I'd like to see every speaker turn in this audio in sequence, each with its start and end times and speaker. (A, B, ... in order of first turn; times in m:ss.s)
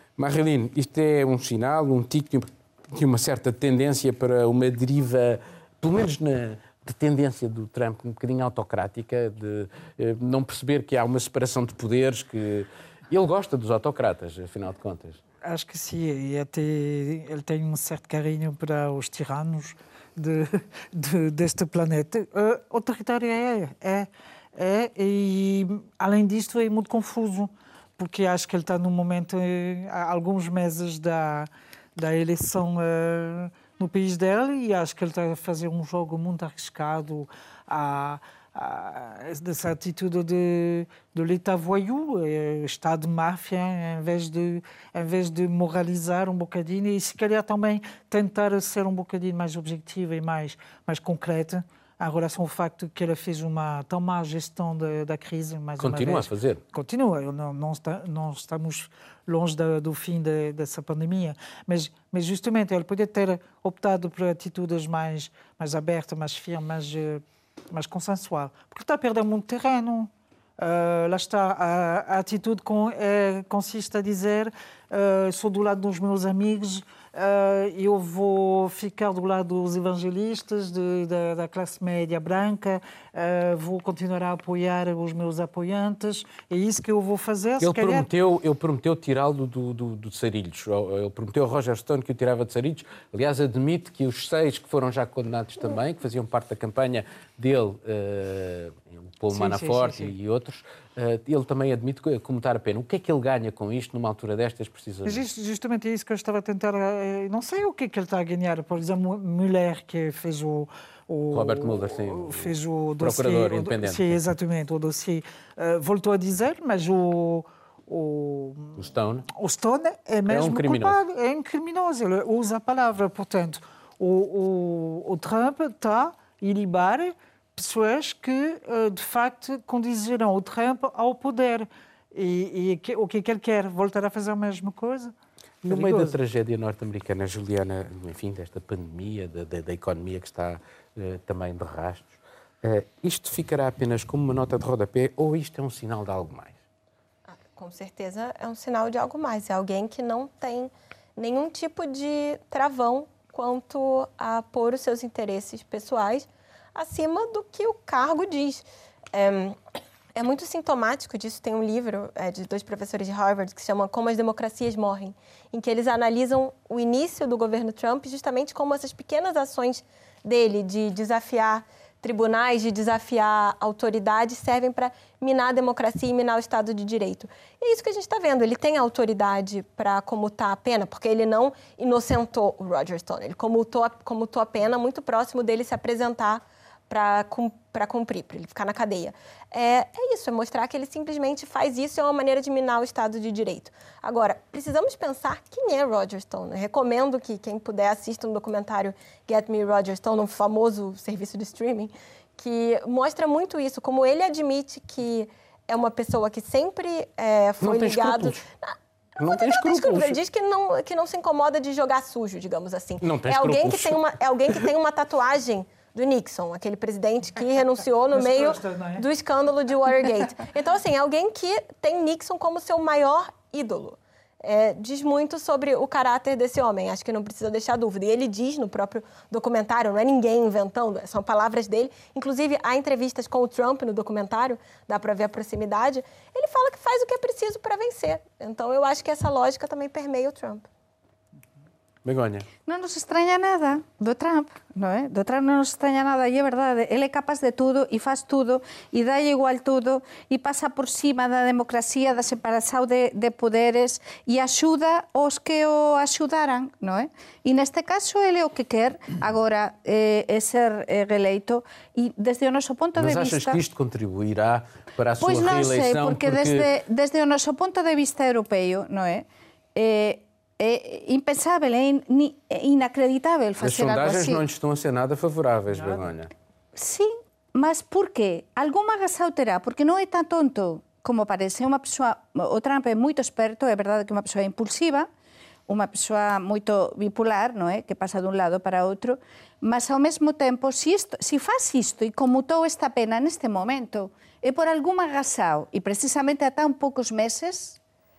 0:00.2-0:15.2 A
0:15.4-1:28.1 B
0:55.8-0:56.6 A
1:27.6-1:45.2 A
1:39.3-1:40.1 B
1:45.0-1:58.8 B
1:51.3-1:54.2 A
1:58.8-1:59.3 A
1:59.4-2:15.1 B
2:00.3-2:01.0 A
2:15.6-2:26.6 A
2:15.7-2:16.2 B
2:27.3-2:39.6 C
2:40.2-4:00.7 C
3:27.6-3:28.4 A
3:29.2-3:30.2 A
3:33.0-3:34.0 A
3:38.1-3:39.0 B
4:02.0-4:02.5 A
4:02.7-4:23.6 D
4:23.0-4:26.7 A
4:25.2-4:34.4 D
4:33.6-4:36.3 A
4:35.7-4:36.1 B
4:36.8-4:45.1 D
4:45.7-4:57.8 D